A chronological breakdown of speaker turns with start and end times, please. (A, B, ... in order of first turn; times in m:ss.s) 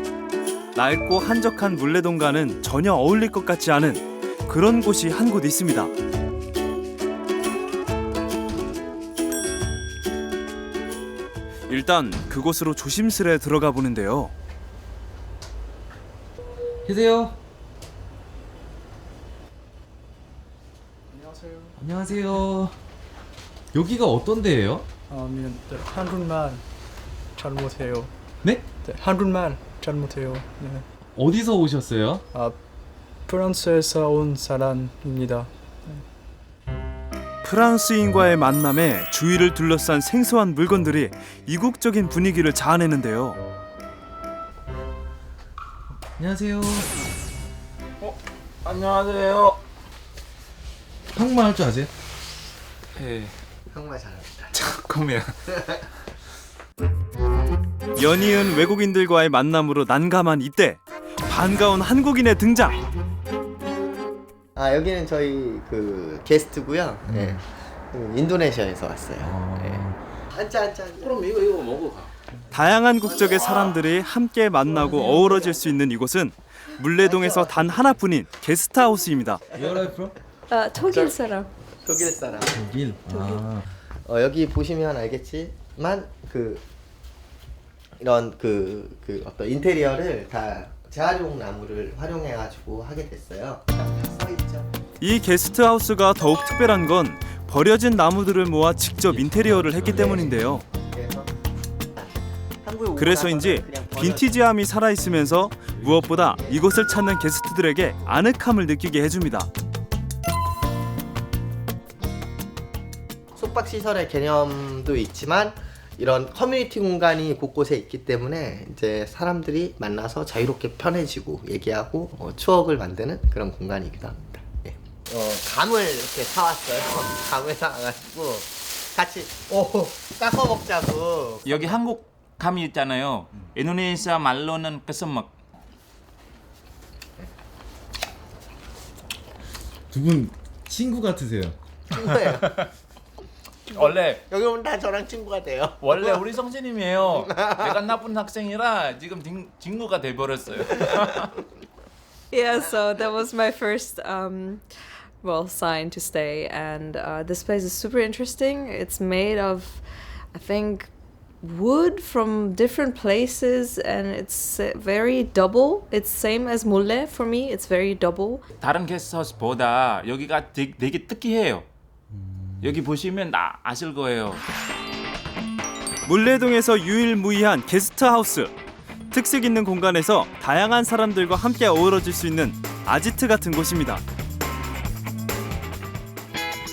0:00.8-0:05.9 A
0:11.7-0:14.3 A
0:16.9-0:17.4 B
0:21.1-0:21.7 C
0:21.8-0:22.8 B
0:23.7-0:24.9 B
0:25.1-0:26.6 C
0:27.4-0:28.1 C
0:28.8-0:30.8 C
0:31.2-0:32.2 B
0:33.3-0:36.0 C
0:37.4-0:43.4 A
0:46.2-0:46.9 B
0:48.6-0:49.6 D
0:51.1-0:51.9 B
0:53.0-0:53.3 D
0:53.7-0:54.6 E
0:54.5-0:55.4 D
0:58.0-1:02.8 A
1:04.6-1:11.3 E
1:07.1-1:07.3 B
1:09.2-1:10.0 B
1:12.5-1:19.4 A
1:17.0-1:17.8 E
1:19.6-1:20.1 B
1:20.5-1:21.5 F
1:20.9-1:21.2 E
1:21.8-1:22.6 E
1:22.5-1:23.7 B
1:23.1-1:23.4 F
1:24.0-1:26.6 E
1:28.0-1:34.7 E
1:35.0-1:40.6 A
1:39.1-1:40.2 B
1:39.9-1:40.3 E
1:40.8-1:41.3 E
1:42.6-1:44.4 E
1:43.0-1:49.5 A
1:46.3-1:46.6 E
1:53.4-2:11.7 E
2:11.4-2:15.3 D
2:19.9-2:21.6 B
2:21.9-2:22.6 E
2:22.2-2:22.7 D
2:23.7-2:24.2 D
2:24.3-2:26.2 E
2:25.8-2:31.4 D
2:27.1-2:27.8 E
2:32.3-2:40.9 F
2:41.4-2:48.4 F
2:48.6-2:51.6 D
2:52.6-2:54.4 D
2:56.1-2:58.5 A
2:59.1-3:04.0 A